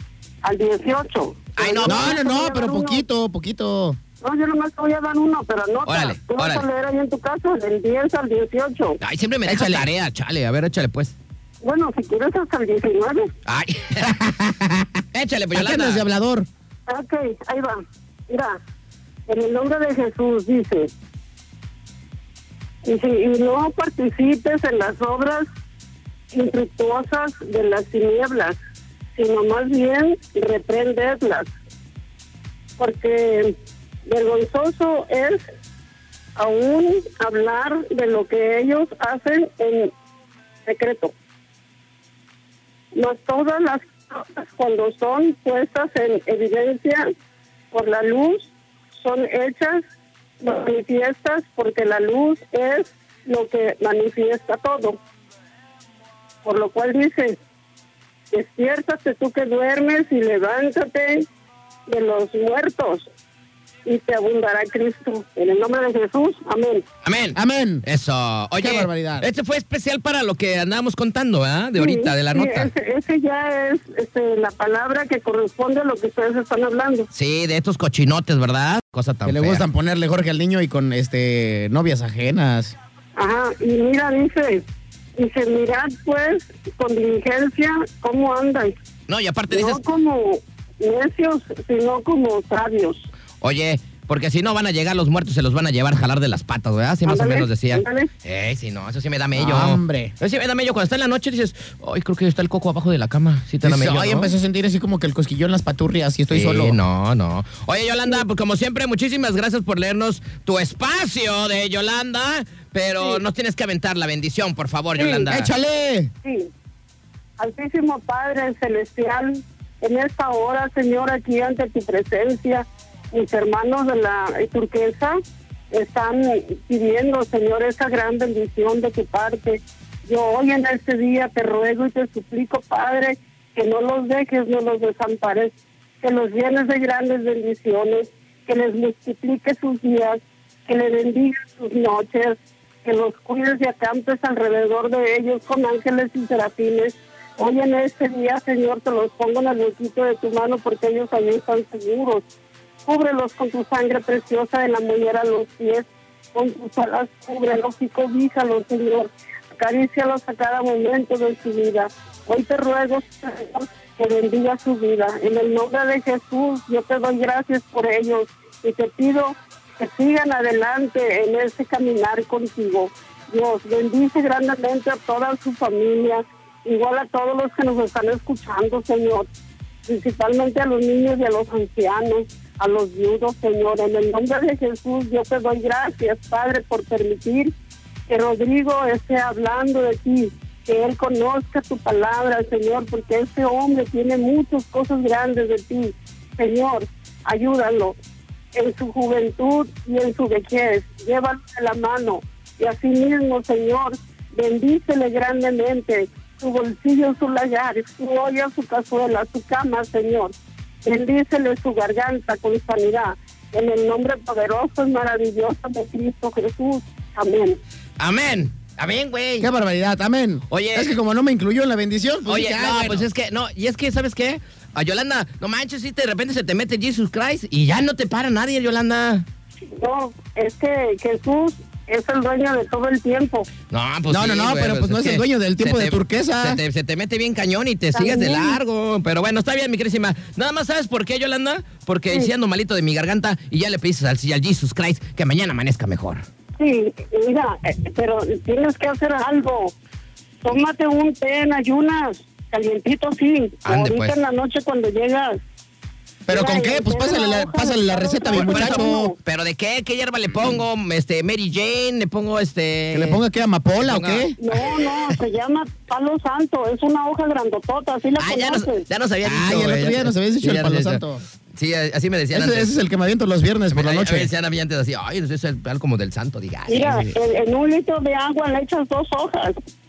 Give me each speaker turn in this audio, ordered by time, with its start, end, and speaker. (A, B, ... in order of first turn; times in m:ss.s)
0:00.4-0:03.0 A
0:01.6-0:02.2 B
0:01.9-0:04.0 C
0:04.2-0:09.0 A
0:05.9-0:06.6 B
0:09.0-0:11.1 B
0:09.5-0:09.9 C
0:11.6-0:13.3 A
0:13.5-0:14.2 B
0:14.0-0:14.9 C
0:15.1-0:16.0 B
0:15.5-0:16.5 C
0:16.9-0:18.6 A
0:19.3-0:20.9 A
0:22.8-0:25.5 A
0:26.3-0:28.6 A
0:29.2-0:31.5 A
0:32.8-0:35.5 A
0:36.4-0:39.9 A
0:40.7-0:41.1 A
0:42.9-0:47.1 A
0:47.7-0:49.8 A
0:50.4-0:55.0 A
0:56.4-0:57.4 A
0:58.3-1:01.3 A
1:01.9-1:03.1 A
1:03.8-1:06.8 A
1:07.0-1:12.7 B
1:07.4-1:07.8 C
1:08.6-1:09.3 C
1:11.8-1:17.1 A
1:17.1-1:19.6 B
1:19.2-1:22.8 C
1:23.2-1:24.6 A
1:25.2-1:28.8 A
1:29.1-1:29.8 B
1:29.5-1:33.1 A
1:33.4-1:44.3 B
1:37.0-1:38.1 A
1:39.4-1:40.1 C
1:43.6-1:46.8 C
1:46.3-1:55.5 B
1:55.0-1:55.2 A
1:55.3-1:56.1 C
1:56.2-1:56.5 A
1:57.4-2:05.2 A
2:05.7-2:32.2 A
2:32.9-2:59.3 A
2:59.9-3:07.5 A
3:08.1-3:18.0 A
3:18.5-3:37.6 A
3:38.0-3:39.5 B
3:39.4-3:43.1 C
3:40.5-3:41.0 B
3:42.3-3:49.3 B
3:49.7-3:53.5 A
3:53.7-4:06.2 B
3:54.1-3:56.6 C
3:57.9-3:58.6 A
4:06.6-4:09.7 A
4:10.4-4:15.4 A
4:13.6-4:14.2 B
4:16.3-4:19.1 C
4:16.3-4:19.2 A
4:18.3-4:23.2 B
4:22.9-4:24.4 C
4:23.8-4:24.8 B
4:24.4-4:28.9 A
4:28.2-4:31.0 B
4:29.2-4:31.2 C
4:31.5-4:32.8 B
4:32.3-4:34.3 C
4:33.7-4:37.2 B
4:36.7-4:39.6 A